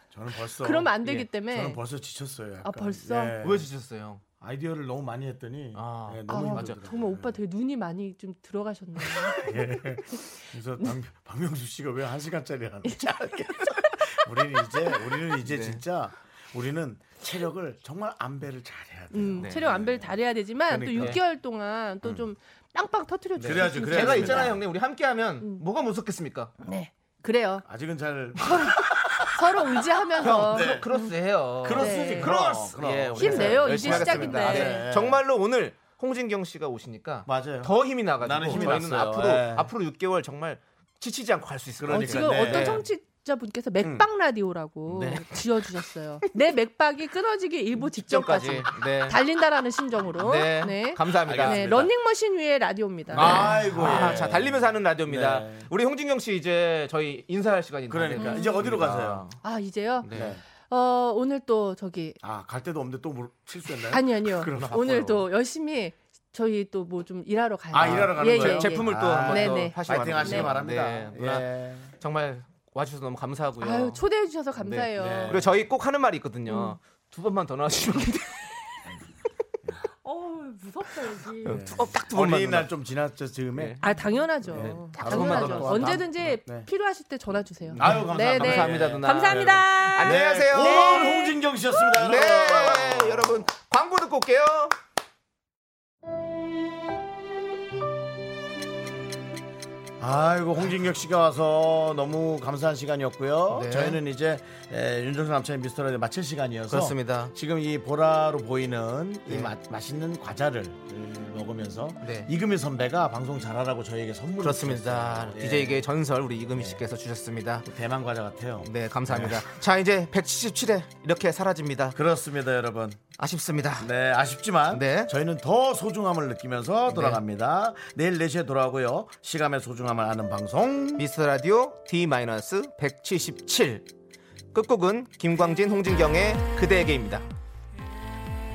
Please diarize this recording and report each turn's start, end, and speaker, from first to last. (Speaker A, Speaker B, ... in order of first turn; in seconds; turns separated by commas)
Speaker A: 0.1-3.7, Speaker B: 0.6-1.8, Speaker B: 2.6-3.3, Speaker C: 3.4-4.2, Speaker A: 4.4-7.4, Speaker C: 5.7-6.8, Speaker B: 6.3-9.6, Speaker A: 9.2-21.2, Speaker C: 15.4-15.8, Speaker B: 19.1-24.6, Speaker A: 22.0-22.3, Speaker C: 23.4-26.5, Speaker A: 23.4-24.6, Speaker B: 26.6-27.6, Speaker A: 27.6-30.9, Speaker B: 29.3-31.1, Speaker C: 30.2-42.8, Speaker A: 31.6-35.2, Speaker B: 31.7-32.3, Speaker B: 33.1-34.9, Speaker A: 37.3-39.7, Speaker A: 41.8-42.9, Speaker B: 41.9-53.9, Speaker A: 43.8-44.1, Speaker C: 44.9-45.2, Speaker C: 47.9-49.2, Speaker C: 50.2-51.9, Speaker A: 51.2-51.9, Speaker A: 53.1-55.7, Speaker C: 53.1-59.4, Speaker A: 57.9-59.3, Speaker B: 58.1-58.6, Speaker B: 59.4-62.2, Speaker C: 60.0-60.4, Speaker A: 60.1-60.4, Speaker A: 62.2-65.2, Speaker B: 63.9-70.5, Speaker C: 64.5-65.1, Speaker A: 67.7-71.9, Speaker C: 67.8-71.5, Speaker C: 72.0-74.0, Speaker B: 73.6-75.4, Speaker C: 74.5-78.4, Speaker A: 74.9-75.6, Speaker B: 76.5-76.8, Speaker B: 80.0-81.7, Speaker C: 81.4-82.7, Speaker A: 81.5-83.8, Speaker C: 83.5-86.1, Speaker B: 83.8-91.4, Speaker A: 84.4-86.7, Speaker A: 87.7-93.5, Speaker C: 87.7-91.1, Speaker C: 92.0-94.8, Speaker A: 100.0-115.9, Speaker C: 103.5-104.0, Speaker C: 106.7-107.3, Speaker C: 109.3-109.5, Speaker C: 112.0-112.3, Speaker C: 114.4-117.7, Speaker A: 116.5-116.8, Speaker A: 117.7-119.5, Speaker C: 118.6-122.0, Speaker A: 121.9-123.0, Speaker C: 123.2-123.9, Speaker A: 123.8-131.1, Speaker C: 124.7-125.1, Speaker C: 126.9-127.2, Speaker C: 131.0-133.9, Speaker C: 134.5-137.2